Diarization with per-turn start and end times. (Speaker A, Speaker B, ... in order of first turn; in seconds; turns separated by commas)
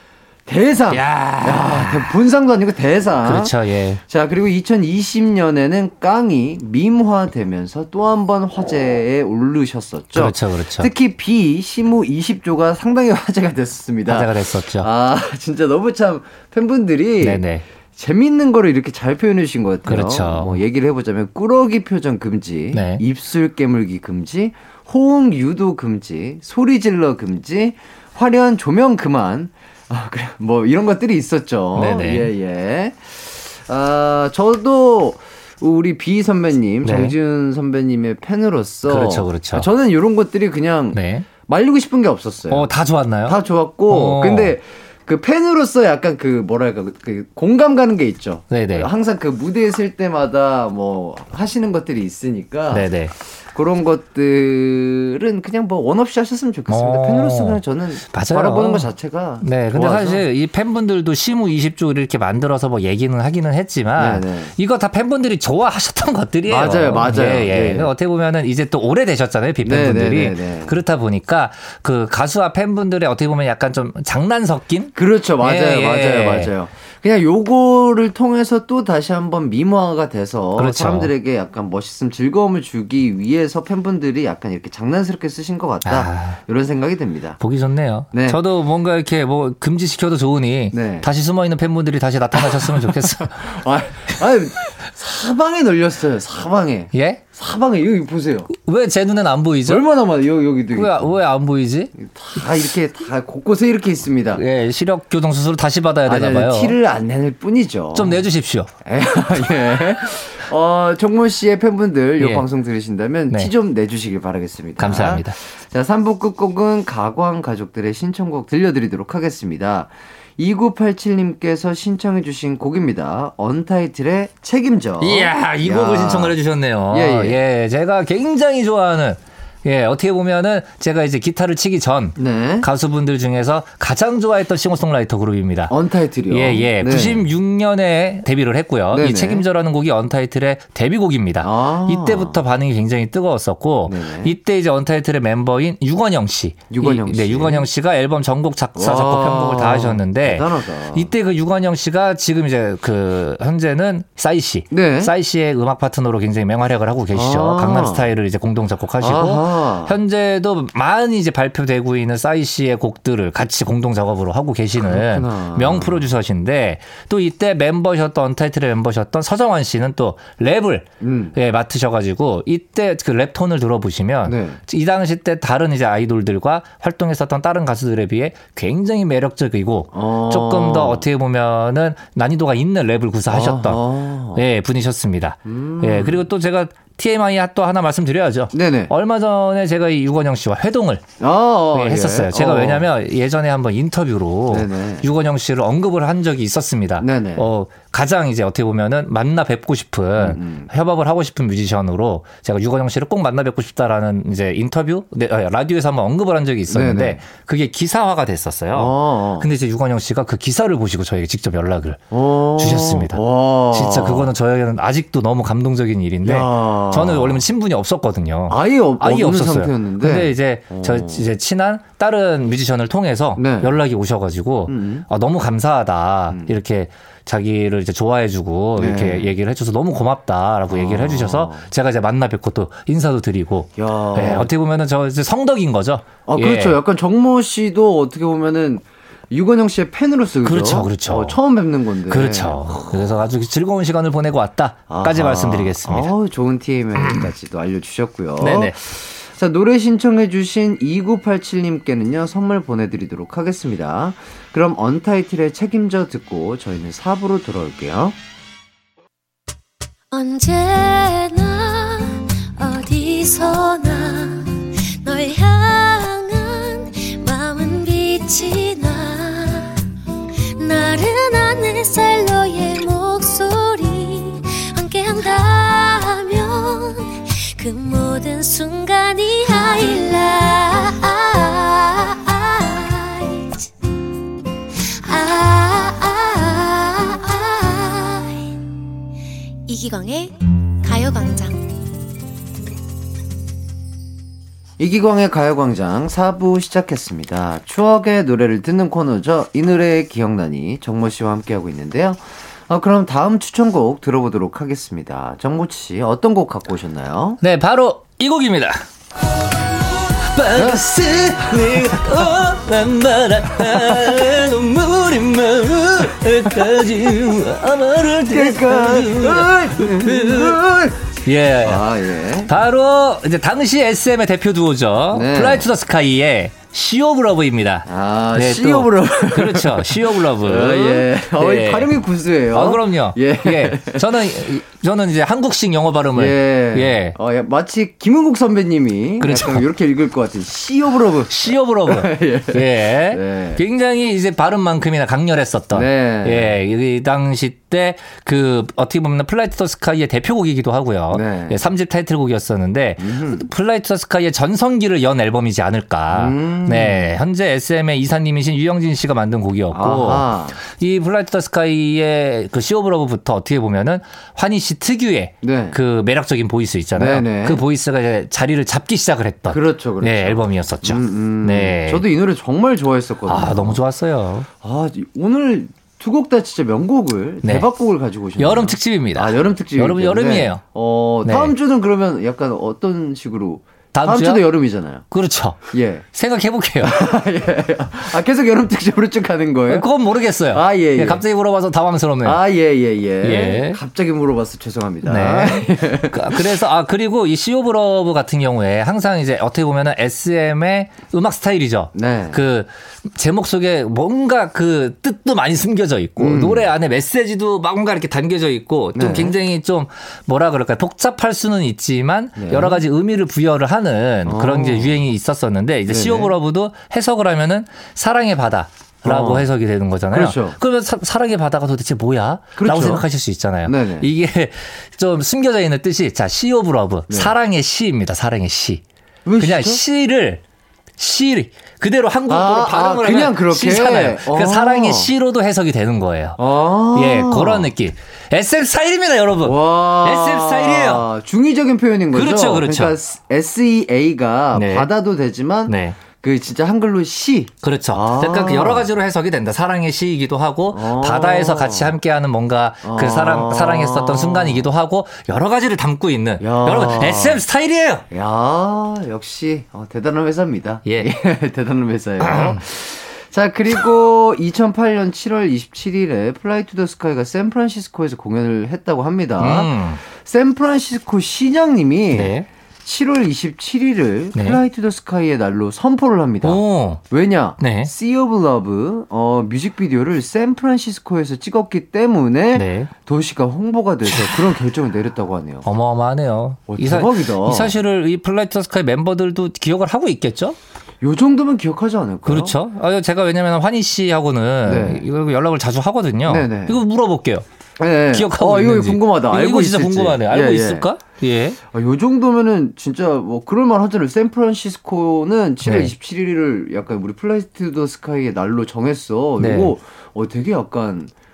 Speaker A: 0.5-42.7, Speaker B: 0.9-2.2, Speaker B: 3.2-4.0, Speaker B: 10.2-10.9, Speaker B: 14.1-14.9, Speaker B: 17.2-17.6, Speaker B: 19.9-20.6, Speaker B: 22.7-23.0, Speaker B: 31.8-32.3, Speaker B: 36.8-37.1, Speaker B: 38.9-39.7, Speaker B: 40.9-41.3, Speaker B: 42.5-44.6, Speaker A: 43.2-60.2, Speaker B: 48.5-48.9, Speaker B: 52.7-53.1, Speaker B: 56.7-58.9, Speaker B: 59.4-76.5, Speaker A: 64.0-64.5, Speaker A: 66.5-67.9, Speaker A: 69.6-70.8, Speaker A: 75.0-87.4, Speaker B: 80.6-81.1, Speaker B: 85.8-86.4, Speaker B: 87.4-93.6, Speaker A: 88.1-88.4, Speaker A: 90.7-91.1, Speaker A: 92.5-98.5, Speaker B: 96.9-97.2, Speaker B: 98.5-99.8, Speaker A: 99.7-101.1, Speaker B: 100.7-101.9, Speaker A: 102.0-104.4, Speaker B: 104.3-106.8, Speaker A: 106.0-108.2, Speaker B: 108.0-108.7, Speaker A: 108.8-126.4, Speaker B: 112.2-112.5, Speaker B: 114.8-115.4, Speaker B: 125.0-135.8, Speaker A: 126.9-127.4, Speaker A: 132.2-132.7, Speaker A: 135.7-137.3, Speaker B: 136.3-183.8, Speaker A: 138.9-139.5, Speaker A: 141.4-142.4, Speaker A: 143.9-144.3, Speaker A: 146.7-147.7, Speaker A: 148.8-151.1, Speaker A: 154.7-155.1, Speaker A: 157.1-158.1, Speaker A: 159.0-160.0, Speaker A: 164.8-166.1, Speaker A: 171.0-171.4, Speaker A: 174.3-174.6, Speaker A: 179.9-181.1, Speaker A: 183.3-184.4, Speaker B: 184.3-191.0, Speaker A: 185.4-186.3, Speaker A: 188.5-188.9, Speaker A: 191.2-192.9, Speaker B: 191.7-212.0, Speaker A: 194.5-195.1, Speaker A: 197.0-197.5, Speaker A: 200.2-200.7, Speaker A: 206.7-207.2, Speaker A: 208.7-209.5, Speaker A: 212.1-214.3, Speaker B: 212.6-236.8, Speaker A: 216.2-217.5, Speaker A: 218.5-221.2, Speaker A: 223.4-223.8, Speaker A: 224.7-225.1, Speaker A: 226.3-226.6, Speaker A: 228.8-229.3, Speaker A: 230.7-231.7, Speaker A: 233.8-234.5, Speaker A: 236.2-243.2, Speaker B: 240.4-241.4, Speaker B: 242.1-246.1, Speaker A: 244.9-258.2, Speaker B: 247.0-247.3, Speaker B: 248.4-248.8, Speaker C: 260.1-264.5, Speaker C: 265.0-269.6, Speaker C: 270.6-283.6, Speaker C: 285.1-288.4, Speaker C: 289.7-290.3, Speaker C: 290.8-291.6, Speaker A: 294.8-307.4, Speaker B: 307.4-308.8, Speaker B: 310.3-320.6, Speaker A: 310.6-310.8, Speaker A: 318.3-321.1, Speaker B: 321.2-321.9, Speaker A: 321.6-322.6, Speaker B: 322.5-331.9, Speaker A: 325.1-325.7, Speaker A: 327.9-334.2, Speaker B: 332.5-337.2, Speaker A: 336.1-343.6, Speaker B: 339.2-339.6, Speaker B: 341.3-372.0, Speaker A: 345.7-346.6, Speaker A: 351.1-351.6, Speaker A: 353.0-353.5, Speaker A: 356.1-357.1, Speaker A: 359.7-360.6, Speaker A: 365.4-365.8, Speaker A: 367.0-367.6, Speaker A: 369.5-373.8, Speaker B: 373.3-374.5, Speaker A: 374.6-385.1, Speaker B: 378.4-380.6, Speaker B: 381.2-381.5, Speaker B: 383.9-384.5, Speaker B: 385.1-387.0, Speaker A: 385.7-386.1, Speaker A: 386.8-389.9, Speaker B: 389.7-392.4, Speaker A: 390.5-391.2, Speaker A: 392.2-396.6, Speaker B: 393.2-393.8, Speaker B: 395.0-428.8, Speaker A: 401.9-402.4, Speaker A: 406.2-406.7, Speaker A: 409.0-409.4, Speaker A: 412.4-412.8, Speaker A: 414.2-415.0, Speaker A: 415.9-416.3, Speaker A: 419.0-419.5, Speaker A: 420.1-420.6, Speaker A: 422.6-423.1, Speaker A: 423.6-424.1, Speaker A: 427.1-427.4, Speaker A: 429.2-429.8, Speaker B: 429.4-430.4, Speaker B: 431.0-436.4, Speaker A: 432.3-435.1, Speaker A: 436.4-437.7, Speaker B: 436.9-441.1, Speaker A: 439.4-448.9, Speaker B: 442.1-442.9, Speaker B: 444.5-444.9, Speaker B: 445.7-446.0, Speaker B: 447.6-458.1, Speaker A: 450.7-452.0, Speaker A: 452.8-454.7, Speaker A: 456.4-457.4, Speaker A: 458.1-485.7, Speaker B: 462.2-462.6, Speaker B: 469.4-470.0, Speaker B: 472.1-472.5, Speaker B: 474.4-474.6, Speaker B: 476.4-477.0, Speaker B: 477.6-477.9, Speaker B: 482.6-482.9, Speaker B: 484.1-484.6, Speaker B: 485.6-490.6, Speaker A: 486.7-487.8, Speaker A: 491.0-492.6, Speaker B: 492.3-497.4, Speaker A: 494.6-495.1, Speaker A: 496.3-496.8, Speaker A: 497.8-500.9, Speaker B: 498.1-501.6, Speaker A: 501.7-511.1, Speaker B: 505.6-505.9, Speaker B: 509.4-509.8